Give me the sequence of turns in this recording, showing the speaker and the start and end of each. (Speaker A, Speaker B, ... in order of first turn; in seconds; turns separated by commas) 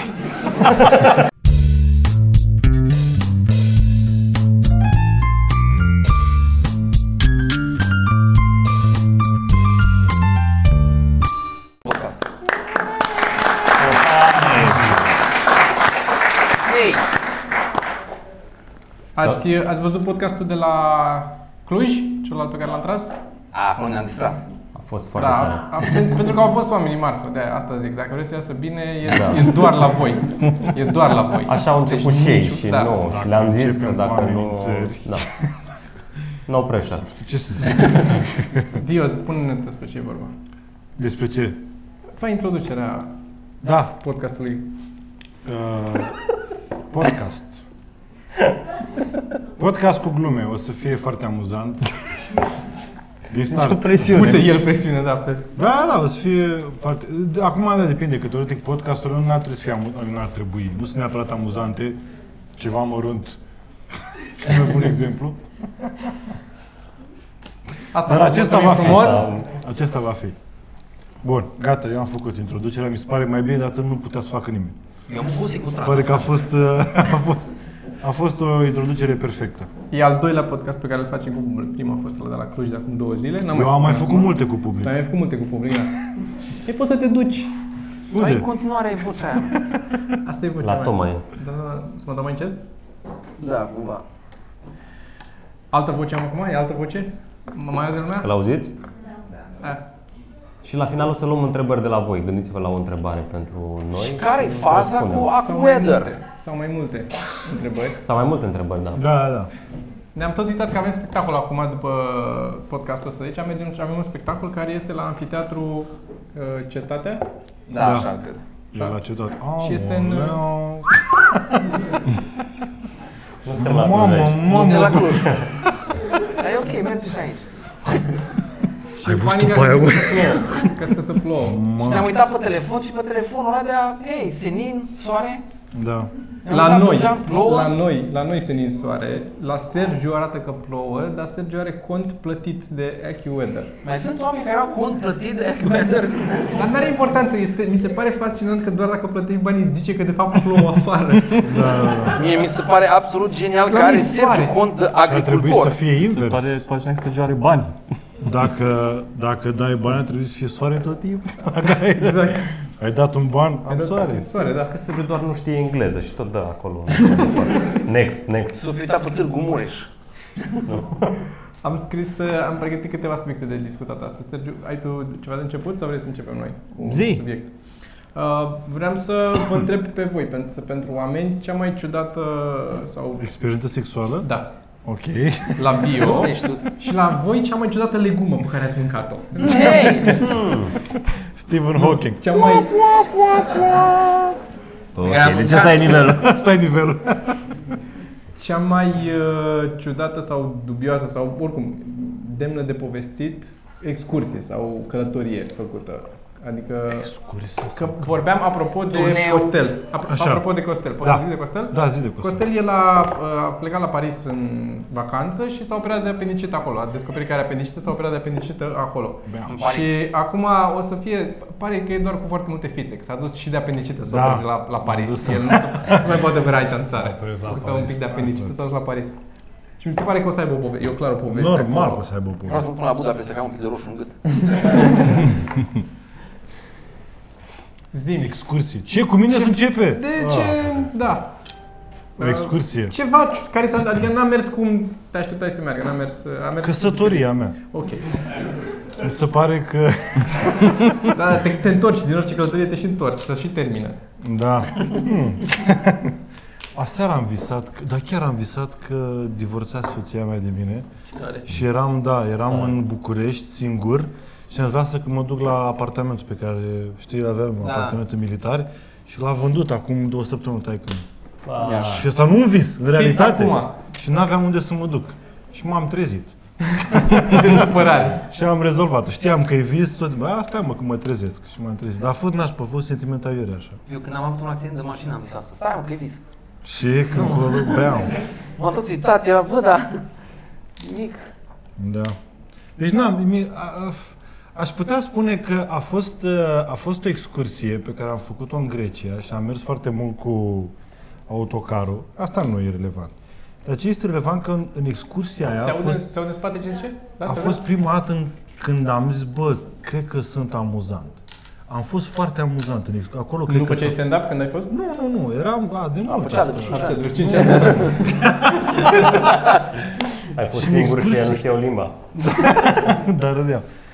Speaker A: 11.8-12.3, Speaker B: 13.8-15.0, Speaker A: 16.6-17.1, Speaker C: 19.1-23.2, Speaker D: 19.2-19.5, Speaker A: 23.5-24.4, Speaker D: 24.8-25.9, Speaker C: 25.1-33.0, Speaker D: 29.1-29.5, Speaker D: 31.4-35.3, Speaker E: 33.0-35.3, Speaker D: 36.5-37.1, Speaker E: 37.1-38.8, Speaker C: 38.7-40.4, Speaker E: 41.0-41.6, Speaker C: 42.1-43.1, Speaker E: 43.6-43.9, Speaker C: 43.9-44.7, Speaker E: 45.5-46.2, Speaker E: 46.9-47.6, Speaker E: 49.6-51.9, Speaker E: 53.3-54.7, Speaker B: 53.5-54.5, Speaker C: 54.1-55.5, Speaker E: 55.6-62.0, Speaker E: 62.6-63.4, Speaker E: 64.0-66.1, Speaker C: 67.9-69.3, Speaker E: 68.0-70.4, Speaker D: 69.0-69.5, Speaker E: 71.2-74.8, Speaker A: 75.1-76.5, Speaker E: 75.8-79.7, Speaker C: 79.9-86.0, Speaker E: 83.5-85.0, Speaker C: 86.6-87.6, Speaker E: 88.1-88.5, Speaker A: 88.1-89.6, Speaker E: 89.5-90.1, Speaker C: 90.2-92.6, Speaker D: 90.6-91.3, Speaker A: 93.4-94.0, Speaker C: 95.7-98.3, Speaker D: 98.2-98.8, Speaker D: 100.6-105.3, Speaker A: 104.0-106.2, Speaker C: 105.3-108.1, Speaker D: 108.0-109.0, Speaker E: 109.0-109.5, Speaker C: 110.2-117.3, Speaker A: 117.7-118.4, Speaker E: 117.8-118.1, Speaker E: 118.7-121.8, Speaker C: 119.6-120.5, Speaker D: 123.4-125.4, Speaker E: 123.5-125.4, Speaker A: 124.5-125.3, Speaker A: 126.2-127.9, Speaker C: 128.9-131.7, Speaker E: 129.0-130.8, Speaker E: 131.3-132.1, Speaker A: 131.8-135.4, Speaker E: 135.7-136.1, Speaker A: 136.5-137.7, Speaker C: 136.5-143.7, Speaker A: 143.8-146.7, Speaker C: 146.6-152.1, Speaker E: 151.3-152.2, Speaker A: 152.1-155.8, Speaker C: 153.7-154.6, Speaker E: 155.0-156.6, Speaker B: 156.1-157.8, Speaker E: 158.2-164.5, Speaker C: 161.8-162.5, Speaker C: 163.7-164.7, Speaker D: 164.6-168.6, Speaker A: 168.6-169.9, Speaker D: 170.7-171.2, Speaker C: 171.6-177.5, Speaker B: 176.9-177.2, Speaker C: 178.1-183.3, Speaker E: 183.2-184.3, Speaker C: 184.2-184.5, Speaker E: 184.8-186.2, Speaker C: 185.6-190.3, Speaker A: 186.1-186.7, Speaker A: 189.4-190.3, Speaker D: 190.2-190.7, Speaker E: 191.4-194.4, Speaker C: 191.8-192.8, Speaker B: 194.9-196.3, Speaker A: 195.0-196.1, Speaker E: 196.0-197.5, Speaker C: 198.4-207.1, Speaker E: 206.9-208.2, Speaker C: 207.8-229.2, Speaker A: 208.9-209.6, Speaker E: 210.1-212.5, Speaker E: 219.3-219.6, Speaker A: 219.5-220.1, Speaker E: 224.1-226.3, Speaker E: 226.9-228.7, Speaker C: 229.8-232.1, Speaker E: 231.3-232.7, Speaker A: 232.5-235.1, Speaker C: 237.9-238.4, Speaker E: 238.2-240.9, Speaker C: 239.3-241.3, Speaker C: 242.2-248.5, Speaker E: 242.2-242.9, Speaker E: 246.6-247.6, Speaker E: 248.9-250.8, Speaker C: 251.1-254.0, Speaker E: 254.2-256.2, Speaker E: 256.8-260.9, Speaker A: 261.1-261.4, Speaker E: 261.4-271.1, Speaker A: 267.6-268.0, Speaker D: 271.4-272.1, Speaker A: 271.6-272.1, Speaker E: 271.8-283.8, Speaker C: 272.9-273.8, Speaker C: 276.9-278.2, Speaker A: 283.9-286.2, Speaker E: 286.6-288.1, Speaker A: 287.2-290.1, Speaker A: 290.8-291.2, Speaker E: 291.8-292.2, Speaker E: 292.8-300.7, Speaker E: 301.3-306.1, Speaker C: 305.5-307.6, Speaker E: 307.2-314.0, Speaker C: 313.5-314.7, Speaker E: 314.7-319.2, Speaker A: 316.1-318.0, Speaker C: 316.7-319.0, Speaker D: 320.3-322.0, Speaker E: 320.5-321.6, Speaker E: 322.2-323.7